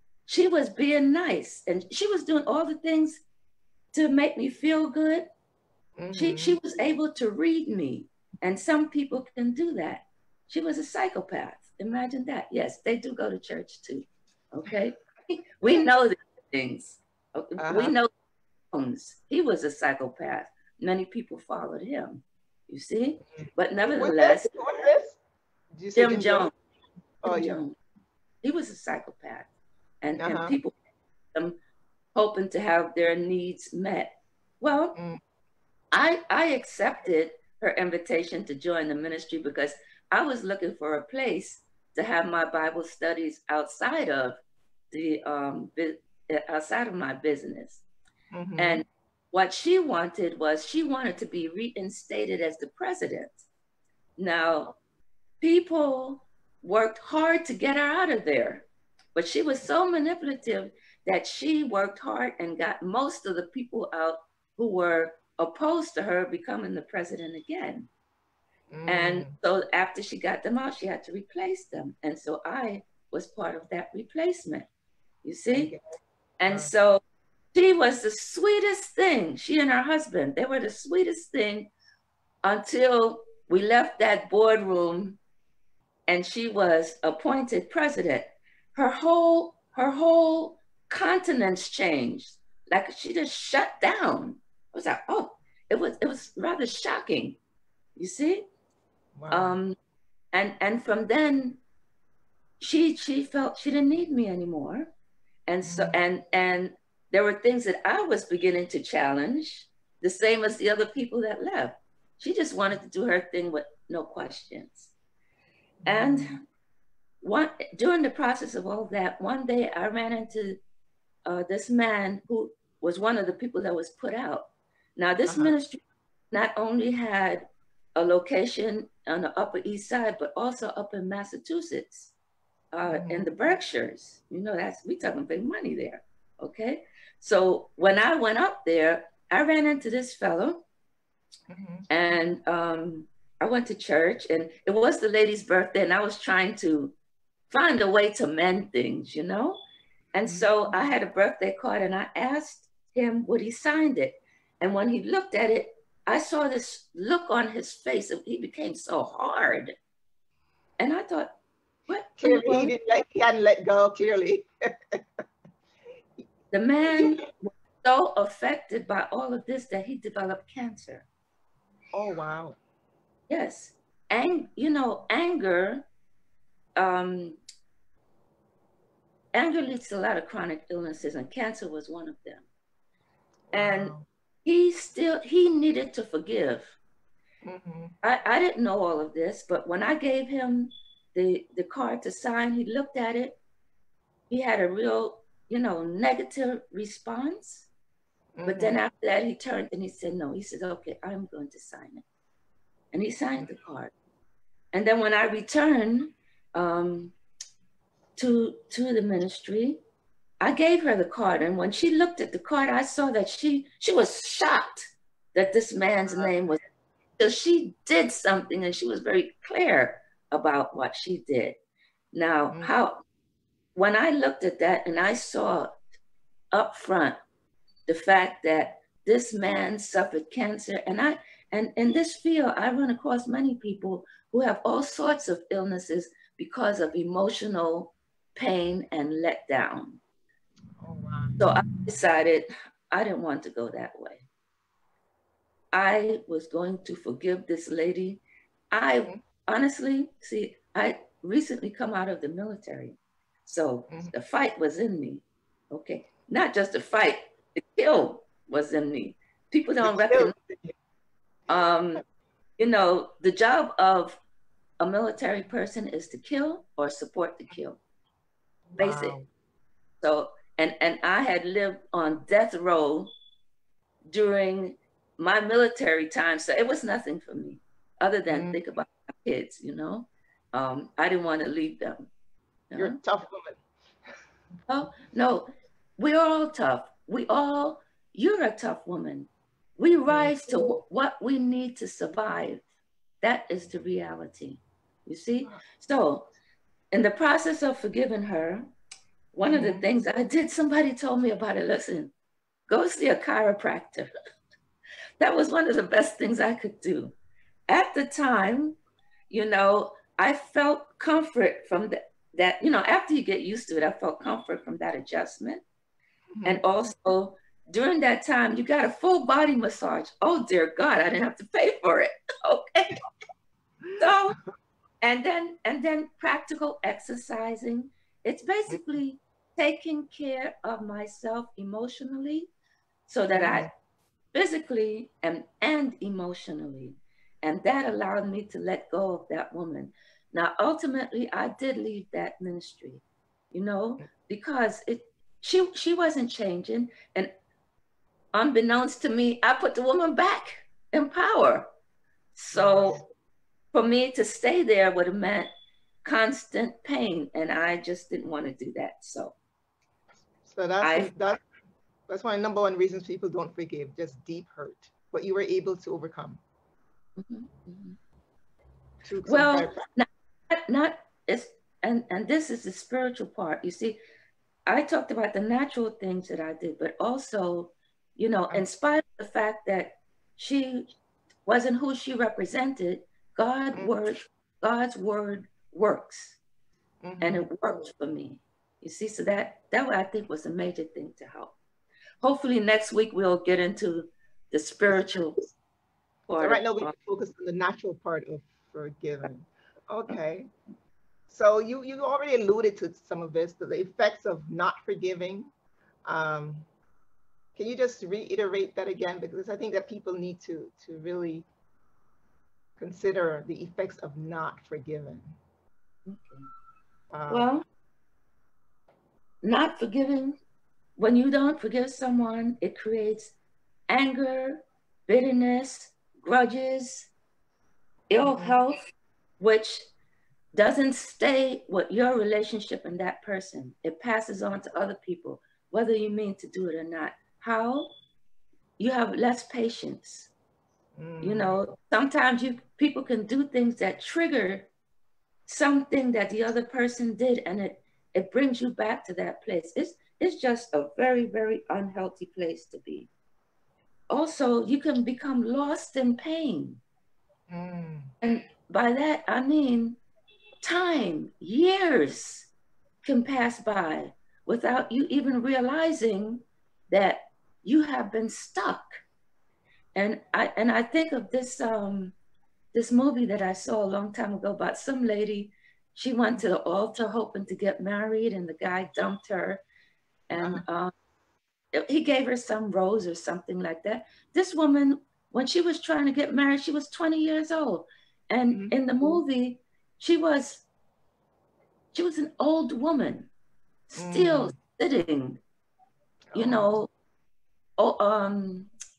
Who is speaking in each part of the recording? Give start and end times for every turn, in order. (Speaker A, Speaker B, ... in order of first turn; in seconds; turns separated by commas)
Speaker A: 0.3-3.2, Speaker A: 3.9-5.3, Speaker B: 6.0-6.6, Speaker A: 6.1-18.1, Speaker B: 17.6-17.9, Speaker A: 18.7-24.5, Speaker B: 23.9-25.2, Speaker B: 25.8-26.5, Speaker A: 25.9-26.5, Speaker B: 27.2-27.6, Speaker A: 27.2-27.8, Speaker A: 28.4-29.5, Speaker A: 30.0-30.7, Speaker B: 30.2-30.6, Speaker A: 31.3-31.6, Speaker A: 32.1-35.0, Speaker B: 34.9-35.2, Speaker A: 35.9-47.8, Speaker B: 48.3-48.8, Speaker A: 48.6-53.5, Speaker A: 54.2-54.7, Speaker A: 55.4-67.9, Speaker B: 68.7-69.3, Speaker A: 68.9-74.7, Speaker A: 75.2-75.7, Speaker B: 75.5-75.8, Speaker A: 76.4-77.0, Speaker A: 77.5-81.7, Speaker A: 82.4-85.2, Speaker A: 86.1-97.4, Speaker A: 98.0-98.5, Speaker B: 99.2-99.6, Speaker A: 99.3-99.8, Speaker A: 100.3-101.6, Speaker A: 102.6-104.9, Speaker A: 105.5-114.9, Speaker B: 105.6-106.0, Speaker B: 115.8-116.3, Speaker A: 115.8-116.4, Speaker A: 117.2-120.6, Speaker A: 121.2-132.1, Speaker B: 125.3-125.5, Speaker A: 132.7-140.6, Speaker B: 132.8-133.3, Speaker B: 141.5-141.9, Speaker A: 141.9-146.9, Speaker A: 147.5-149.6, Speaker A: 150.1-159.7, Speaker A: 160.8-161.3, Speaker A: 161.9-162.7, Speaker B: 162.2-165.0, Speaker A: 166.5-171.1, Speaker B: 166.9-167.2, Speaker B: 171.9-172.6, Speaker A: 173.3-175.9, Speaker A: 176.8-177.4, Speaker A: 179.3-182.4, Speaker B: 183.5-184.1, Speaker A: 183.5-183.9, Speaker A: 184.4-186.8, Speaker B: 187.4-187.9, Speaker A: 188.0-193.4, Speaker A: 194.3-197.7, Speaker B: 198.4-198.8, Speaker A: 198.4-202.0, Speaker A: 202.9-203.9, Speaker A: 204.7-207.1, Speaker A: 208.2-209.8, Speaker A: 210.4-216.6, Speaker A: 217.2-221.6, Speaker A: 222.1-223.0, Speaker A: 223.7-225.8, Speaker A: 226.5-227.2, Speaker A: 227.8-240.0, Speaker B: 240.8-241.6, Speaker A: 241.4-244.2, Speaker A: 245.7-260.3, Speaker B: 259.8-260.7, Speaker A: 261.5-262.0, Speaker A: 262.6-264.2, Speaker A: 264.8-267.8, Speaker B: 268.7-269.3, Speaker A: 268.8-269.2, Speaker A: 270.0-273.1, Speaker A: 274.1-282.1, Speaker B: 278.3-278.6, Speaker A: 282.7-283.0, Speaker B: 282.7-283.6, Speaker A: 284.7-292.6, Speaker B: 290.1-290.7, Speaker A: 293.2-296.3, Speaker A: 296.9-298.7, Speaker A: 299.3-302.1, Speaker B: 299.4-299.8, Speaker A: 302.7-304.1, Speaker A: 305.2-307.1, Speaker A: 307.7-308.8, Speaker A: 309.3-315.6, Speaker B: 316.4-316.6, Speaker A: 316.4-323.0, Speaker A: 324.0-324.4, Speaker A: 325.0-332.5, Speaker A: 333.1-333.7, Speaker B: 333.3-333.7, Speaker A: 334.3-347.3, Speaker A: 348.3-351.7, Speaker A: 352.4-353.0, Speaker B: 352.5-353.0, Speaker A: 353.7-355.5, Speaker A: 356.0-359.4, Speaker B: 360.4-361.4, Speaker A: 360.8-361.1, Speaker B: 362.1-366.4, Speaker A: 367.2-368.0, Speaker B: 369.0-369.9, Speaker A: 369.2-374.0, Speaker A: 374.6-380.9, Speaker A: 381.4-386.4, Speaker B: 387.0-387.4, Speaker A: 387.2-391.6, Speaker A: 392.2-395.4, Speaker B: 394.9-395.2, Speaker A: 396.3-396.9, Speaker B: 396.4-400.5, Speaker B: 401.3-405.5, Speaker B: 406.1-406.6, Speaker B: 407.6-411.5, Speaker B: 412.8-415.3, Speaker A: 416.1-416.5, Speaker B: 417.1-417.5, Speaker A: 417.3-417.6, Speaker A: 419.4-420.4, Speaker A: 421.0-423.3, Speaker A: 423.9-427.1, Speaker A: 428.1-428.8, Speaker B: 428.2-428.6, Speaker A: 429.4-429.9, Speaker A: 430.5-437.9, Speaker A: 438.8-440.3, Speaker B: 441.0-441.6, Speaker A: 441.2-444.7, Speaker A: 445.5-453.1, Speaker A: 454.1-456.8, Speaker B: 457.5-458.1, Speaker A: 458.2-460.0, Speaker A: 460.6-462.5, Speaker A: 463.0-469.0, Speaker A: 469.9-472.1, Speaker A: 472.7-479.6, Speaker A: 480.3-480.9, Speaker A: 481.7-490.6, Speaker B: 488.5-489.2, Speaker A: 491.9-493.3, Speaker A: 493.9-495.4, Speaker B: 493.9-494.5, Speaker B: 496.3-496.7, Speaker A: 496.3-496.9, Speaker A: 497.8-498.7